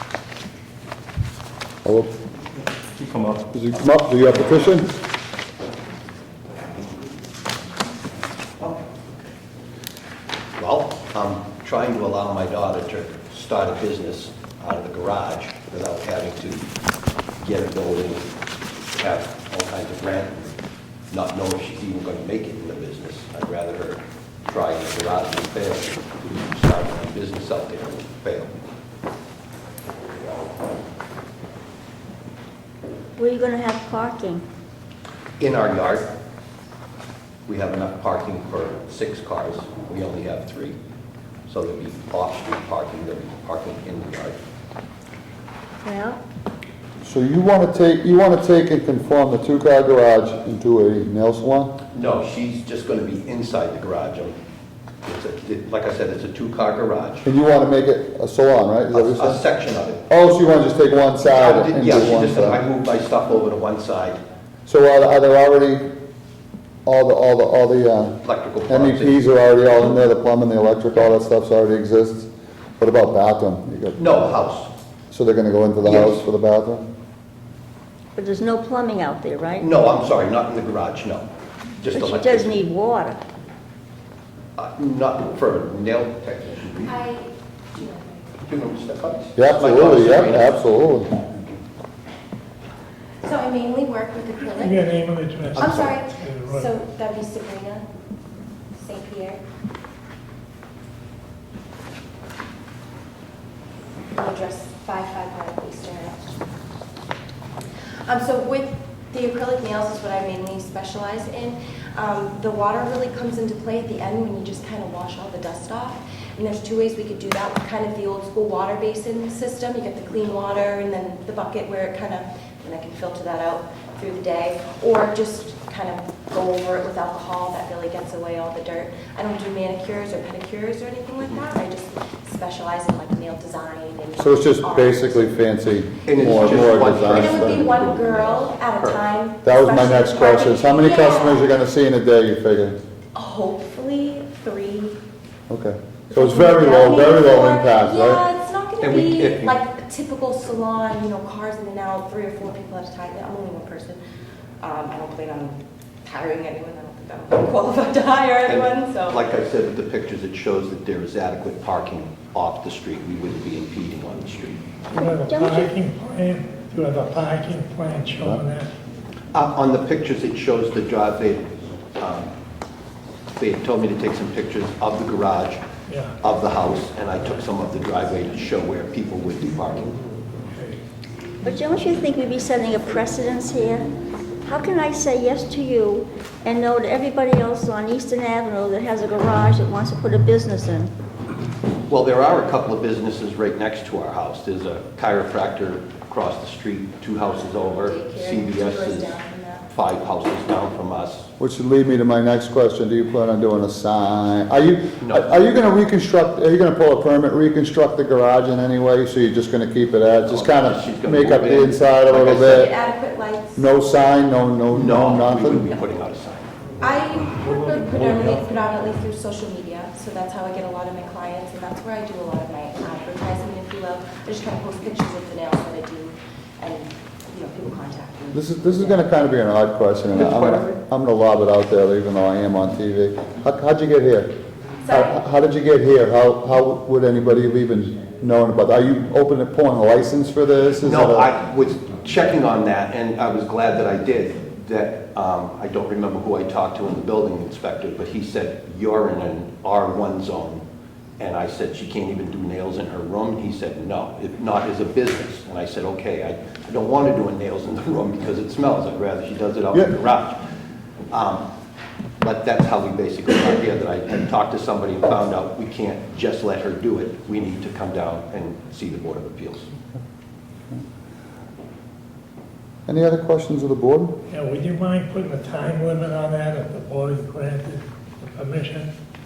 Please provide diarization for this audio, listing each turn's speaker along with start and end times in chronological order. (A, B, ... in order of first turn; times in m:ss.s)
0:01.8-0:02.1 A
0:03.5-0:04.9 A
0:10.6-0:16.6 B
0:17.4-0:18.3 B
0:18.9-0:20.5 B
0:21.1-0:28.5 B
0:33.2-0:34.4 C
0:35.4-0:36.1 B
0:37.4-0:40.8 B
0:41.5-0:44.4 B
0:45.8-0:46.2 C
0:47.0-0:51.8 A
0:51.9-0:54.4 B
0:55.0-0:57.2 B
0:57.2-0:59.4 A
0:58.9-1:00.0 B
1:00.1-1:02.6 A
1:01.2-1:04.2 B
1:04.6-1:05.9 A
1:06.8-1:14.3 A
1:08.2-1:09.2 B
1:13.9-1:14.7 B
1:15.1-1:16.8 A
1:15.8-1:16.2 B
1:18.2-1:19.7 C
1:19.6-1:21.3 B
1:21.8-1:22.6 B
1:21.9-1:23.2 C
1:24.6-1:27.0 B
1:26.8-1:28.4 D
1:28.5-1:30.6 B
1:29.4-1:31.2 A
1:33.2-1:34.8 D
1:34.5-1:36.7 E
1:35.5-1:36.0 B
1:35.6-1:37.8 D
1:38.7-1:39.4 D
1:44.1-1:46.3 D
1:48.0-2:15.4 D
2:14.2-2:17.8 A
2:16.0-2:19.0 B
2:16.2-2:21.5 D
2:19.4-2:22.8 A
2:23.1-2:25.0 D
2:25.5-2:28.2 A
2:26.1-2:34.0 D
2:28.8-2:29.5 B
2:34.6-2:39.2 D
2:38.5-2:44.6 B
2:44.9-2:45.7 C
2:44.9-2:48.7 E
2:49.3-2:51.4 B
2:52.0-2:52.3 B
2:53.4-2:55.6 B
2:55.9-2:56.2 E
2:56.2-3:00.0 B
3:00.5-3:00.8 E
3:01.4-3:03.9 C
3:04.4-3:10.9 C
3:11.9-3:19.1 B
3:17.8-3:19.7 D
3:19.7-3:21.3 B
3:21.4-3:32.7 A
3:25.0-3:25.5 B
3:30.2-3:32.7 B
3:32.4-3:33.6 D
3:33.6-3:35.7 A
3:34.7-3:36.5 B
3:36.8-3:49.0 D
3:48.3-3:54.3 A
3:50.1-3:50.7 B
3:54.8-3:55.2 D
3:54.9-4:01.3 A
4:00.8-4:10.6 B
4:11.2-4:20.4 B
4:21.1-4:21.4 B
4:22.2-4:29.6 B
4:32.9-4:34.2 A
4:34.3-4:38.9 E